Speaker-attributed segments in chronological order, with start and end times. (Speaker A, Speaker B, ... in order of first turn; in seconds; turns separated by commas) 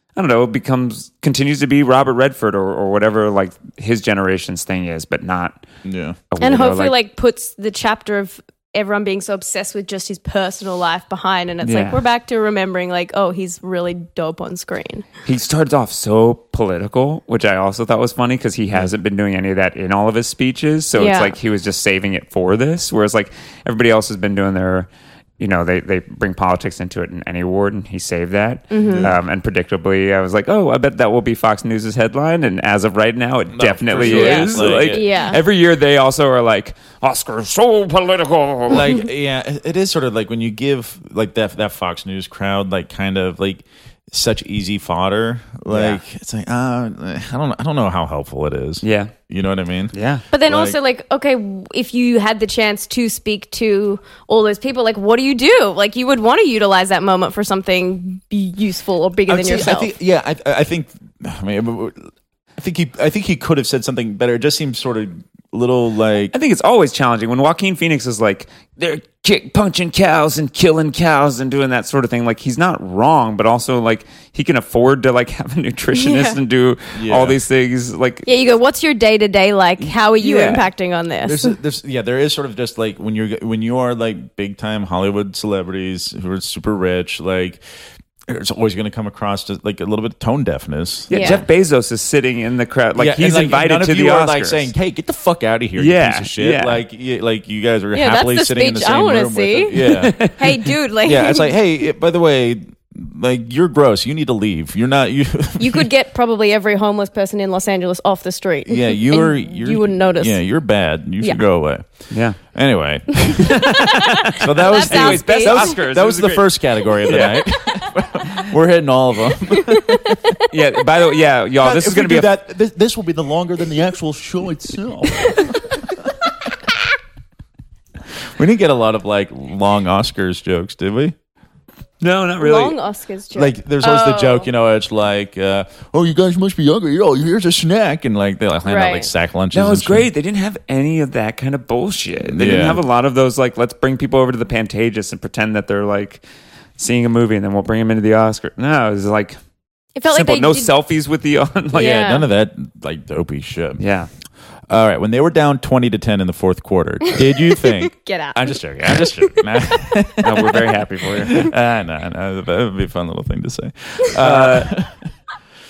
Speaker A: 0.2-5.6, Speaker B: 5.8-6.2, Speaker A: 6.3-7.0, Speaker C: 6.4-15.1, Speaker A: 11.6-12.0, Speaker A: 15.2-39.0, Speaker C: 21.0-21.4, Speaker C: 28.7-29.1, Speaker B: 28.9-29.2, Speaker B: 33.5-35.2, Speaker C: 34.0-35.4, Speaker B: 38.7-49.9, Speaker A: 45.7-46.0, Speaker A: 48.8-49.1, Speaker A: 49.9-50.3, Speaker C: 50.3-59.9, Speaker B: 50.5-50.8, Speaker B: 59.3-66.3, Speaker A: 66.3-78.3, Speaker C: 75.9-76.4, Speaker B: 76.9-77.4, Speaker C: 78.3-81.6, Speaker A: 80.2-80.7, Speaker B: 81.2-87.6, Speaker B: 88.3-91.5, Speaker C: 91.1-91.4, Speaker A: 91.1-94.7, Speaker B: 93.0-100.2, Speaker A: 95.8-96.8, Speaker C: 97.9-101.5, Speaker A: 99.8-100.6, Speaker B: 101.0-105.9, Speaker C: 105.6-110.4, Speaker B: 108.7-111.9, Speaker A: 112.1-112.4, Speaker B: 112.4-113.7, Speaker A: 113.4-117.6, Speaker C: 114.2-115.8, Speaker B: 114.4-120.4, Speaker C: 119.5-120.5, Speaker A: 120.5-122.3, Speaker B: 121.6-126.7, Speaker B: 128.3-131.2, Speaker A: 132.0-132.8, Speaker C: 132.4-134.5, Speaker B: 133.3-140.1, Speaker C: 138.7-139.1, Speaker A: 139.5-146.2, Speaker B: 142.3-142.8, Speaker A: 146.8-149.4, Speaker C: 150.0-150.7, Speaker A: 150.1-152.0, Speaker B: 151.7-153.8, Speaker C: 151.7-152.3, Speaker A: 153.8-154.1, Speaker B: 154.7-165.1, Speaker C: 157.1-159.4, Speaker A: 160.2-161.5, Speaker A: 164.2-164.7